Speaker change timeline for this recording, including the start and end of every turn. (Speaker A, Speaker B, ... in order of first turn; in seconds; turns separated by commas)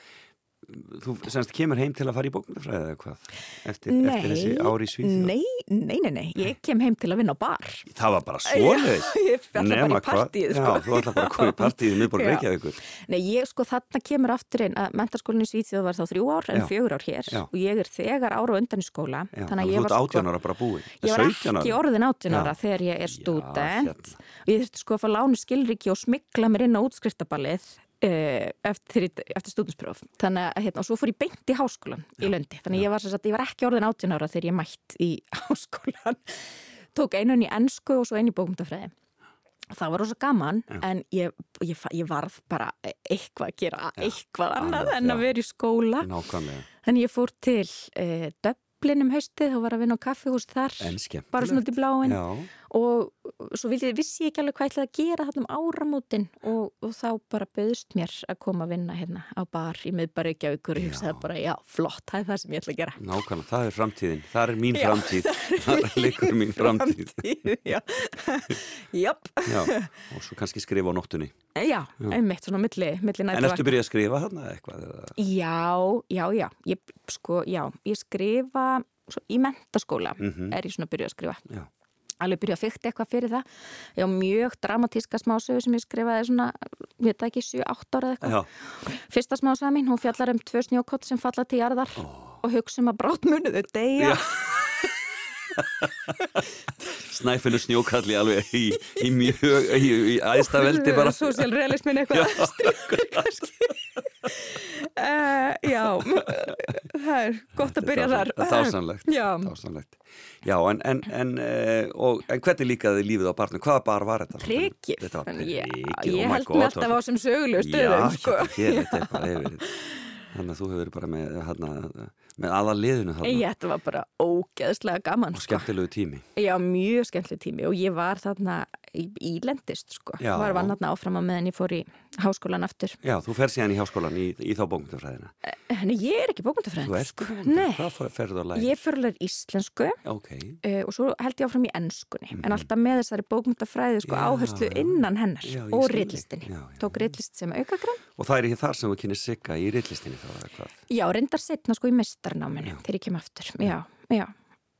Speaker A: 0.6-5.3, Speaker B: 3.9-7.9, Speaker A: 7.9-12.8, Speaker B: 8.5-20.3, Speaker A: 19.3-22.6, Speaker B: 21.0-38.9, Speaker A: 23.1-24.2, Speaker B: 39.7-46.1, Speaker A: 44.0-45.3, Speaker A: 46.0-46.7, Speaker B: 46.8-63.0, Speaker A: 50.8-52.5, Speaker A: 60.8-61.3, Speaker A: 63.0-67.4, Speaker B: 64.7-69.9, Speaker A: 69.5-71.3, Speaker B: 71.6-73.8, Speaker A: 73.3-75.2, Speaker B: 75.2-81.4, Speaker A: 80.2-80.6, Speaker B: 82.2-83.5, Speaker B: 84.0-94.2, Speaker A: 88.2-88.5, Speaker A: 92.0-92.4, Speaker A: 94.0-94.3, Speaker A: 95.6-96.1, Speaker A: 96.8-101.5, Speaker B: 100.3-109.5, Speaker A: 102.1-103.3, Speaker A: 107.5-117.0, Speaker B: 114.4-119.9, Speaker A: 117.5-119.6, Speaker A: 120.3-123.5, Speaker B: 123.2-125.7, Speaker A: 125.3-126.2, Speaker B: 126.4-133.0, Speaker A: 130.2-130.8, Speaker A: 133.0-135.3, Speaker B: 135.5-137.9, Speaker A: 136.8-138.8, Speaker B: 138.6-140.0, Speaker A: 140.1-140.6, Speaker B: 140.6-148.0, Speaker A: 142.3-142.7, Speaker A: 144.0-147.1, Speaker A: 148.2-150.8, Speaker B: 150.9-154.3